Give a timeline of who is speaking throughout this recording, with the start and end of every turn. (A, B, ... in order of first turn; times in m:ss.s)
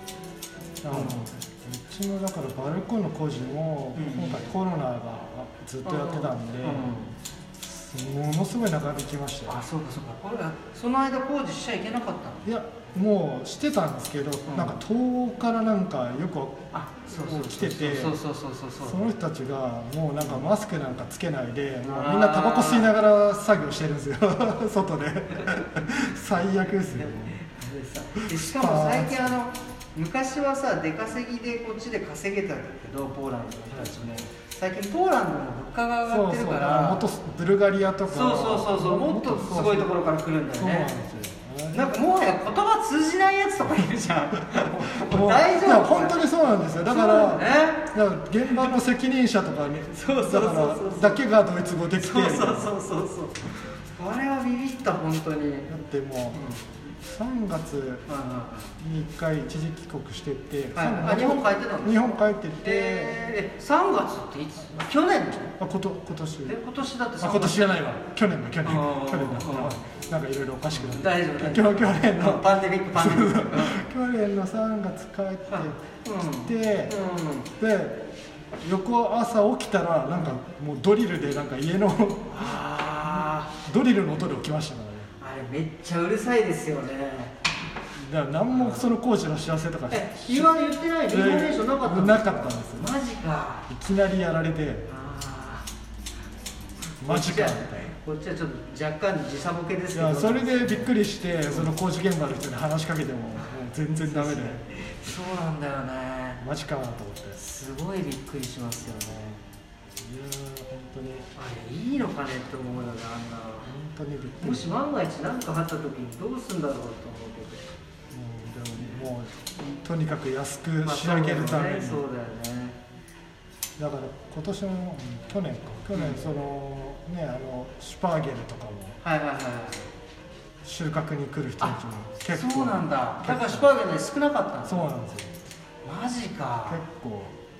0:00.8-0:06.9 A
0:00.9-0:01.3 B
0:04.0-0:04.5 B
0:05.8-0:07.2 B
0:07.6-0:09.6 A
0:09.5-0:12.4 B
0:12.4-0:18.2 A
0:14.5-0:14.8 B
0:16.7-0:19.1 B
0:18.8-0:27.4 A
0:20.2-0:20.5 B
0:21.8-0:22.9 B
0:26.7-0:37.1 B
0:28.2-0:29.4 A
0:33.7-0:34.3 A
0:36.1-0:39.9 A
0:38.1-0:40.9 B
0:40.5-0:42.0 A
0:41.7-0:46.3 B
0:44.5-0:52.7 A
0:46.8-0:47.9 B
0:48.5-0:48.7 B
0:49.9-0:51.2 B
0:52.0-0:55.7 B
0:55.7-0:58.0 A
0:56.3-0:56.7 B
0:58.1-0:58.8 B
0:58.8-1:03.2 A
1:00.8-1:05.6 B
1:05.6-1:06.6 A
1:06.5-1:07.7 B
1:07.2-1:15.8 A
1:08.6-1:09.8 B
1:10.7-1:13.9 B
1:15.5-1:17.5 B
1:16.4-1:17.0 A
1:17.6-1:18.0 A
1:18.6-1:25.1 A
1:22.3-1:23.5 B
1:25.2-1:27.4 B
1:28.0-1:32.9 A
1:28.5-1:28.9 B
1:29.9-1:33.7 B
1:33.7-1:34.9 A
1:34.9-1:35.7 B
1:36.9-1:41.7 B
1:37.0-1:37.9 A
1:39.9-1:44.6 A
1:44.0-1:46.4 B
1:46.4-1:47.4 A
1:47.4-1:49.4 B
1:50.0-1:51.3 A
1:51.4-1:53.7 B
1:53.7-1:54.7 A
1:54.4-1:57.7 B
1:58.1-2:02.0 A
2:00.8-2:02.8 B
2:03.8-2:09.0 A
2:05.9-2:06.3 B
2:09.0-2:09.9 B
2:10.6-2:13.7 A
2:11.6-2:14.9 B
2:14.6-2:15.3 A
2:15.8-2:16.8 B
2:16.7-2:17.4 A